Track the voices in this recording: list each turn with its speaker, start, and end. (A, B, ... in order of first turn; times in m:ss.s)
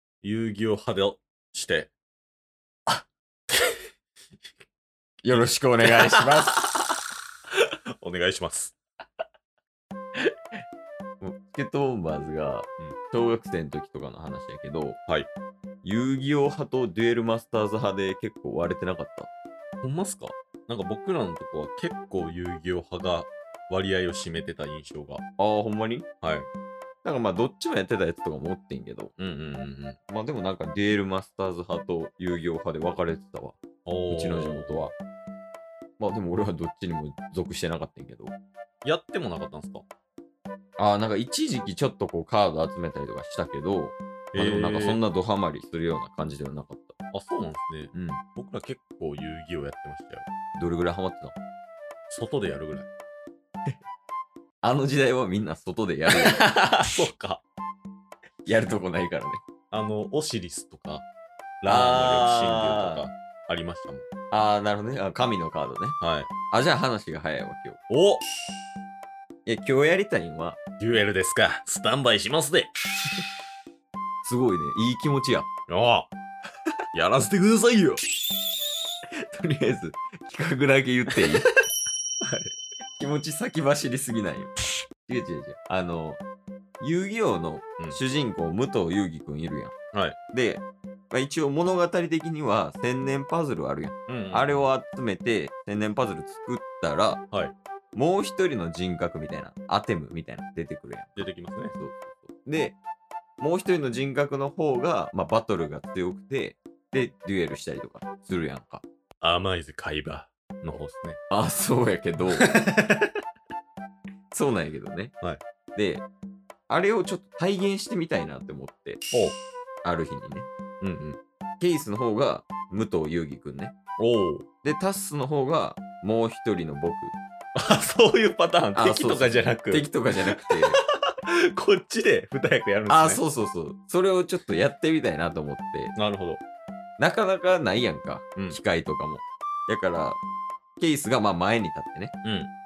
0:00.2-0:01.9 A
0:05.2-0:06.8 B
0:07.6-0:08.8 A
0:11.2-0:15.0 B
0:15.8-0:19.3 B
0:19.8-0:25.2 A
0:25.4-0:26.1 B
0:26.2-0:26.5 A
0:27.0-0:29.1 B
0:29.2-0:30.0 A
0:30.1-0:35.0 B
0:33.9-0:34.8 A
0:36.0-0:38.3 B
0:38.8-0:39.8 A
0:40.8-0:47.0 B
0:44.3-0:45.0 A
0:47.1-0:50.3 A
0:47.9-0:48.2 B
0:50.6-0:51.4 B
0:52.1-0:52.9 A
0:54.6-0:56.9 B
0:56.1-0:57.4 A
0:58.4-0:59.4 B
0:59.7-1:01.0 A
1:01.6-1:04.0 A
1:01.7-1:03.0 B
1:04.3-1:06.0 B
1:06.0-1:06.3 A
1:06.5-1:07.8 B
1:07.9-1:08.2 A
1:09.5-1:10.6 B
1:10.8-1:12.7 A
1:14.2-1:15.5 B
1:15.7-1:16.1 A
1:16.9-1:18.0 A
1:19.3-1:21.5 B
1:22.2-1:22.5 A
1:23.0-1:24.5 B
1:25.1-1:26.2 B
1:26.8-1:29.8 B
1:30.3-1:37.2 B
1:34.1-1:34.6 A
1:37.9-1:42.8 B
1:41.2-1:41.7 A
1:43.4-1:48.8 B
1:49.2-1:51.2 A
1:51.3-1:52.6 B
1:52.4-1:53.1 A
1:54.3-1:55.1 B
1:55.8-1:56.0 B
1:56.7-1:59.0 B
1:59.8-2:00.5 B
2:00.8-2:01.2 A
2:01.6-2:03.7 B
2:04.0-2:04.4 A
2:04.6-2:07.2 B
2:07.6-2:13.2 A
2:08.8-2:10.8 B
2:12.9-2:15.9 B
2:16.0-2:16.4 A
2:17.0-2:20.2 B
2:20.8-2:22.2 B
2:22.2-2:22.5 A